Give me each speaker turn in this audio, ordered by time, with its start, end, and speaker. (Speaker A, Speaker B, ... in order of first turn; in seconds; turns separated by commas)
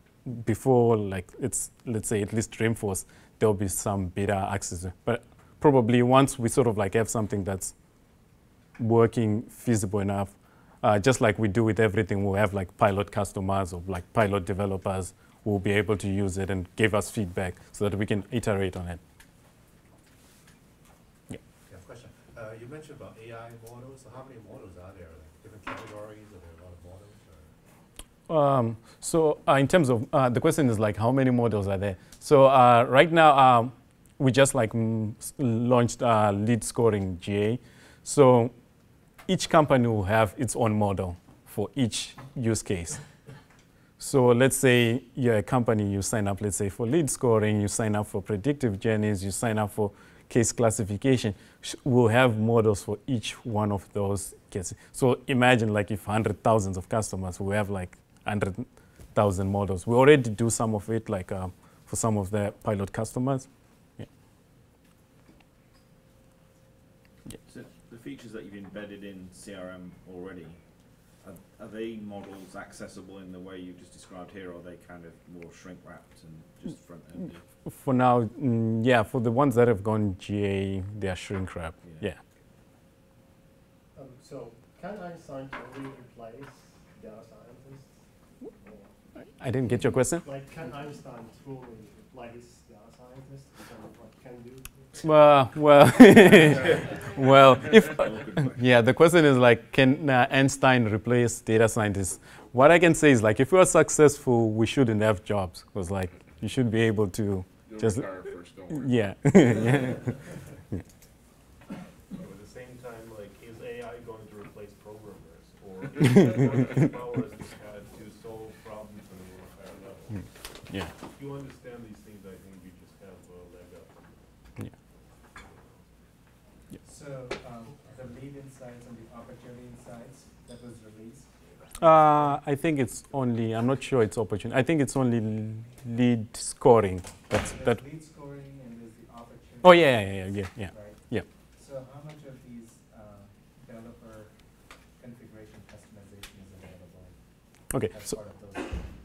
Speaker A: 0.3-7.7, Speaker A: 8.8-19.0, Speaker B: 21.7-27.5, Speaker A: 28.3-38.5, Speaker A: 39.3-43.0, Speaker A: 44.0-64.1, Speaker C: 67.4-70.6, Speaker C: 71.2-77.5, Speaker A: 77.7-82.2, Speaker C: 81.8-82.1, Speaker D: 84.0-88.9, Speaker A: 89.4-90.2, Speaker D: 90.2-95.0, Speaker A: 95.0-108.0, Speaker C: 97.9-98.6, Speaker E: 107.7-110.0, Speaker A: 108.7-110.1, Speaker F: 112.2-120.3, Speaker F: 121.0-124.3, Speaker F: 125.3-125.8, Speaker G: 126.8-132.4, Speaker A: 131.8-137.8, Speaker G: 137.3-144.3, Speaker A: 139.6-141.2, Speaker G: 144.9-147.2, Speaker A: 147.7-148.0, Speaker G: 147.7-148.9